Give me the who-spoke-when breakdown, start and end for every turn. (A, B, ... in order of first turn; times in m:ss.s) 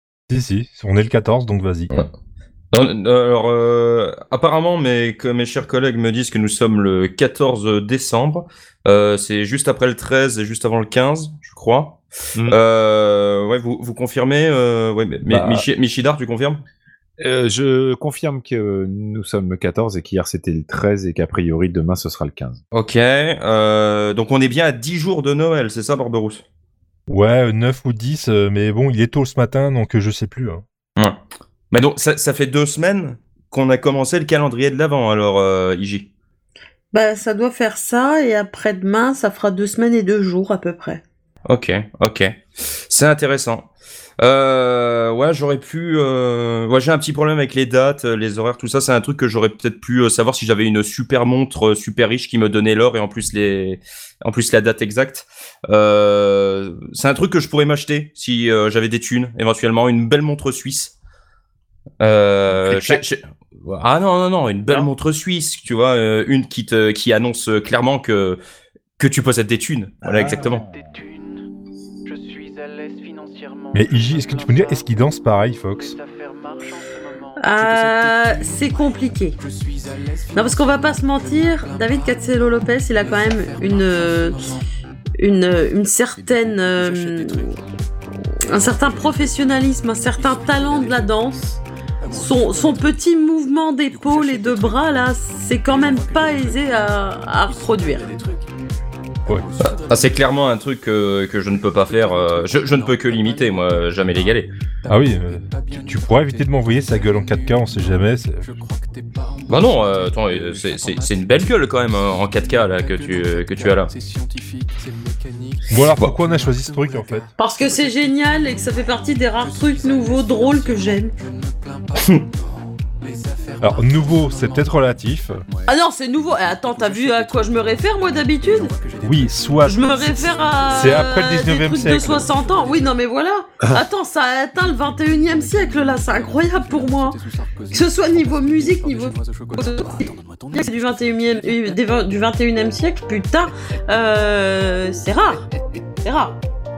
0:00.3-0:01.9 A
0:02.7-0:16.6 B
0:15.3-0:15.7 C
0:17.2-0:22.6 C
0:22.7-0:26.4 B
0:27.1-0:30.6 A
0:31.7-0:36.1 B
0:36.9-0:41.0 D
0:41.5-1:01.0 B
1:02.0-1:08.4 B
1:02.5-1:03.0 C
1:09.0-1:10.7 B
1:10.0-1:10.6 C
1:10.3-1:11.4 E
1:12.1-1:14.9 E
1:13.7-1:16.0 A
1:15.8-1:24.7 E
1:17.4-1:19.4 D
1:20.4-1:24.5 D
1:25.2-1:27.5 D
1:26.2-1:27.7 E
1:28.5-1:33.2 E
1:28.5-1:31.6 D
1:32.1-1:38.1 D
1:33.7-1:38.6 E
1:39.3-1:40.3 E
1:39.8-1:44.5 B
1:41.7-2:13.0 E
1:44.9-1:48.4 A
1:49.5-1:53.9 B
1:55.7-1:57.3 A
1:57.4-2:01.1 D
2:02.0-2:02.2 B
2:03.6-2:05.4 A
2:05.7-2:08.7 D
2:09.0-2:09.9 A
2:09.6-2:17.2 D
2:10.7-2:12.3 A
2:14.5-2:22.3 E
2:17.7-2:25.4 D
2:26.0-2:26.4 D